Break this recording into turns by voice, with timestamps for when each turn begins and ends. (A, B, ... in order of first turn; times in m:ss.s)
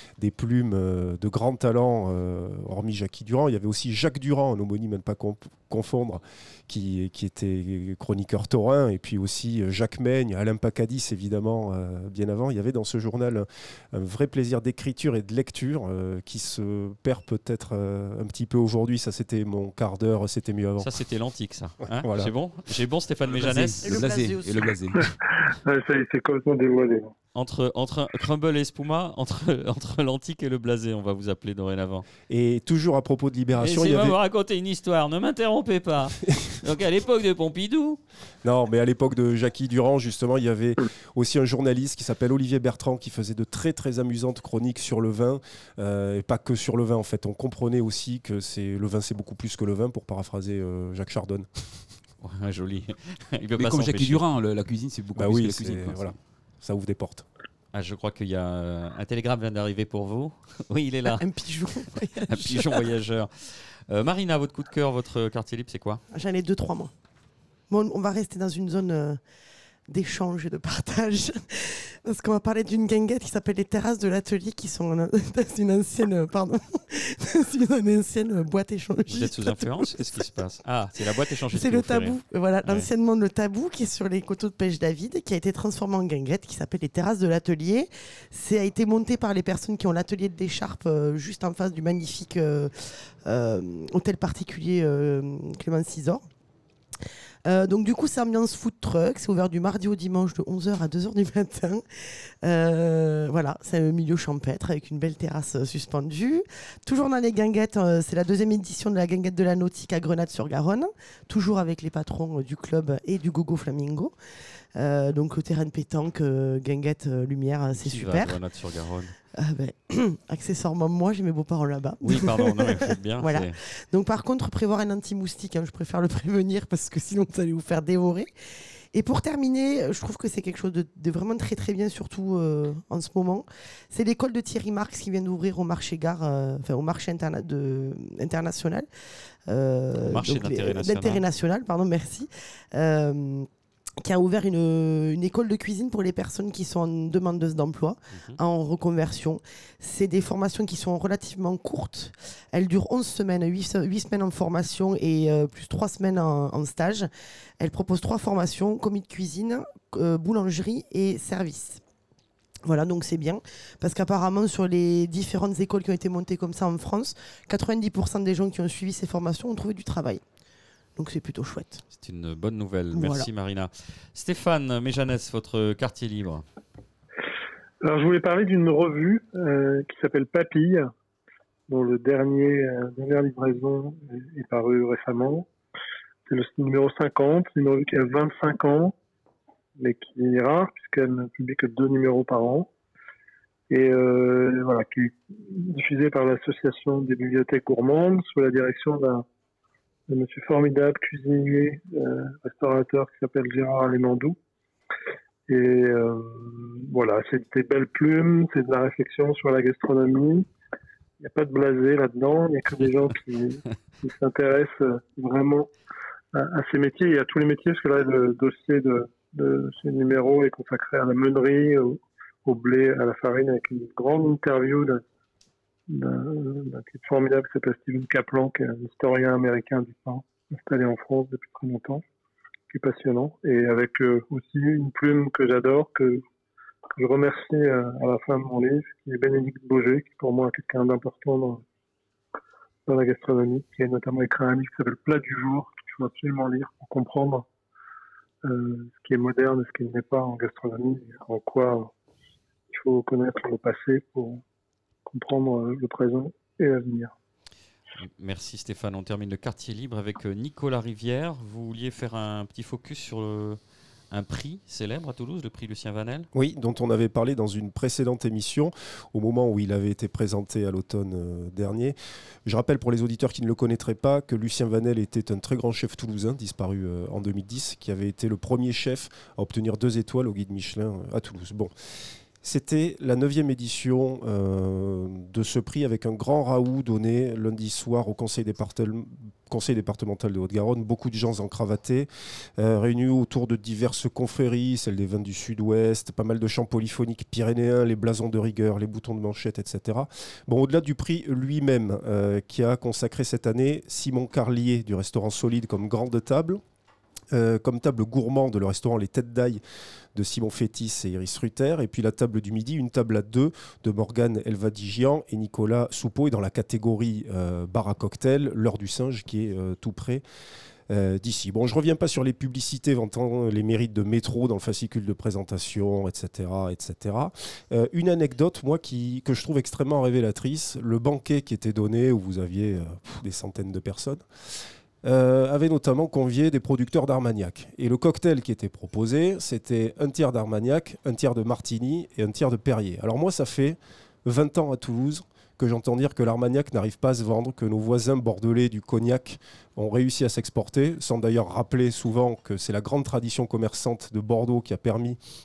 0:00.2-0:20.9 A
0:20.8-0:23.9 B
0:22.0-0:22.3 A
0:23.4-0:25.1 C
0:23.8-0:24.9 D
0:25.3-0:27.1 E
0:27.3-0:32.0 B
0:32.3-0:34.2 A
0:33.6-0:38.0 B
0:38.4-0:51.5 A
0:52.2-0:54.2 B
0:53.6-0:56.2 C
0:55.1-0:57.2 A
0:57.7-1:01.2 B
1:01.0-1:02.9 D
1:02.3-1:06.0 B
1:06.1-1:06.9 D
1:07.7-1:09.2 D
1:09.9-1:20.2 D
1:19.1-1:22.9 B
1:21.5-1:36.2 D
1:37.4-1:41.8 D
1:42.4-1:54.1 D
1:54.8-1:58.4 D
1:57.8-1:59.1 B
1:59.3-2:08.3 D
2:02.0-2:03.6 B
2:08.9-2:18.9 D
2:19.5-2:23.5 D
2:20.0-2:21.2 B
2:24.0-2:37.1 D
2:28.1-2:28.4 B
2:37.6-2:41.8 D
2:42.6-2:50.2 D
2:51.0-2:51.8 D
2:51.9-2:56.4 B
2:52.9-2:53.3 D
2:57.8-3:00.9 E
3:01.7-3:05.5 E
3:06.3-3:08.9 E
3:09.8-3:12.7 E
3:13.7-3:19.2 E
3:20.1-3:24.4 E
3:25.5-3:30.5 E
3:31.2-3:35.7 E
3:36.3-3:45.0 E
3:45.9-3:52.0 E
3:52.7-3:56.2 E
3:57.0-4:01.6 E
4:02.9-4:07.4 E
4:08.4-4:11.9 E
4:12.7-4:14.4 E
4:15.0-4:17.1 E
4:18.0-4:23.6 B
4:24.1-4:26.3 B
4:26.3-4:41.7 A
4:42.4-5:06.6 A
5:07.3-5:09.6 A
5:10.1-5:20.2 A
5:20.9-5:34.2 A
5:35.0-5:55.2 A